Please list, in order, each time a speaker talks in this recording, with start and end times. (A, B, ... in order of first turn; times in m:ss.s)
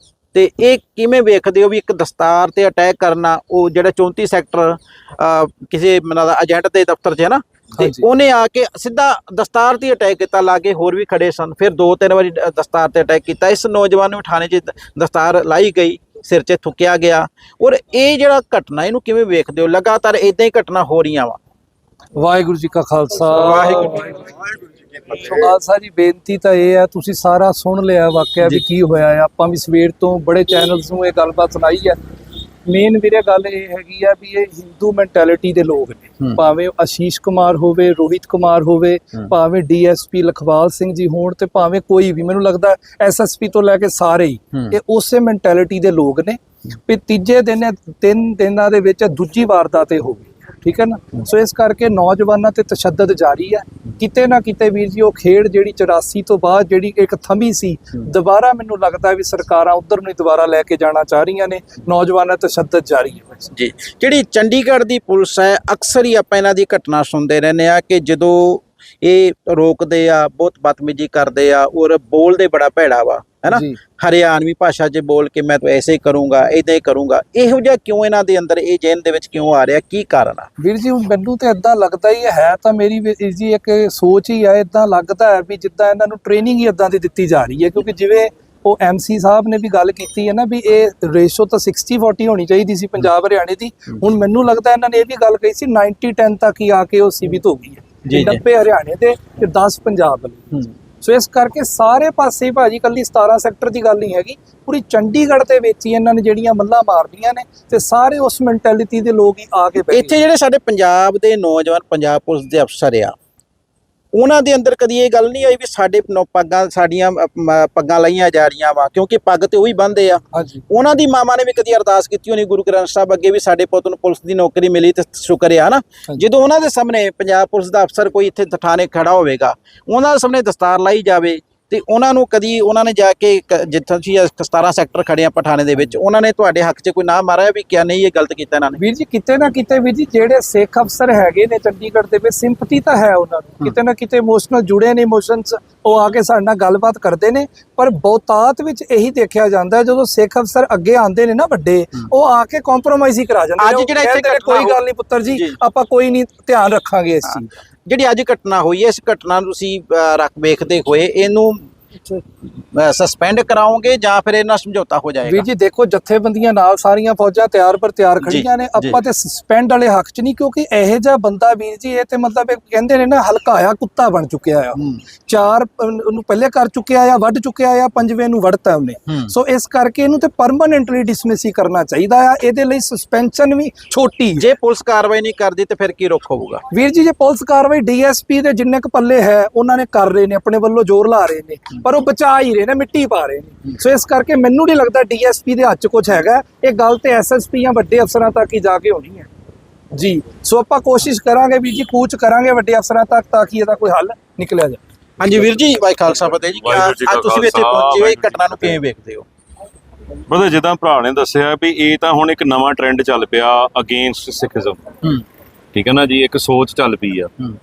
0:00.3-0:21.4 A
0:22.2-0:24.5 B
0:23.3-0:24.2 A
0:25.0-0:32.0 B
0:32.6-1:03.5 B
1:03.5-1:20.5 A
1:13.5-1:13.8 B
1:20.6-1:50.2 B
1:38.1-1:38.4 A
1:49.9-1:53.2 A
1:54.1-2:18.8 A
2:00.4-2:00.6 B
2:18.8-2:37.5 B
2:33.6-2:34.8 A
2:35.3-2:35.6 A
2:37.3-2:41.7 A
2:42.7-2:45.4 A
2:45.2-3:04.4 B
2:48.2-2:49.0 A
2:54.8-2:55.0 A
3:04.4-3:06.6 A
3:06.7-3:19.3 B
3:19.9-3:24.8 B
3:25.2-3:29.2 A
3:26.6-3:28.8 C
3:30.3-3:34.8 C
3:35.7-3:37.3 C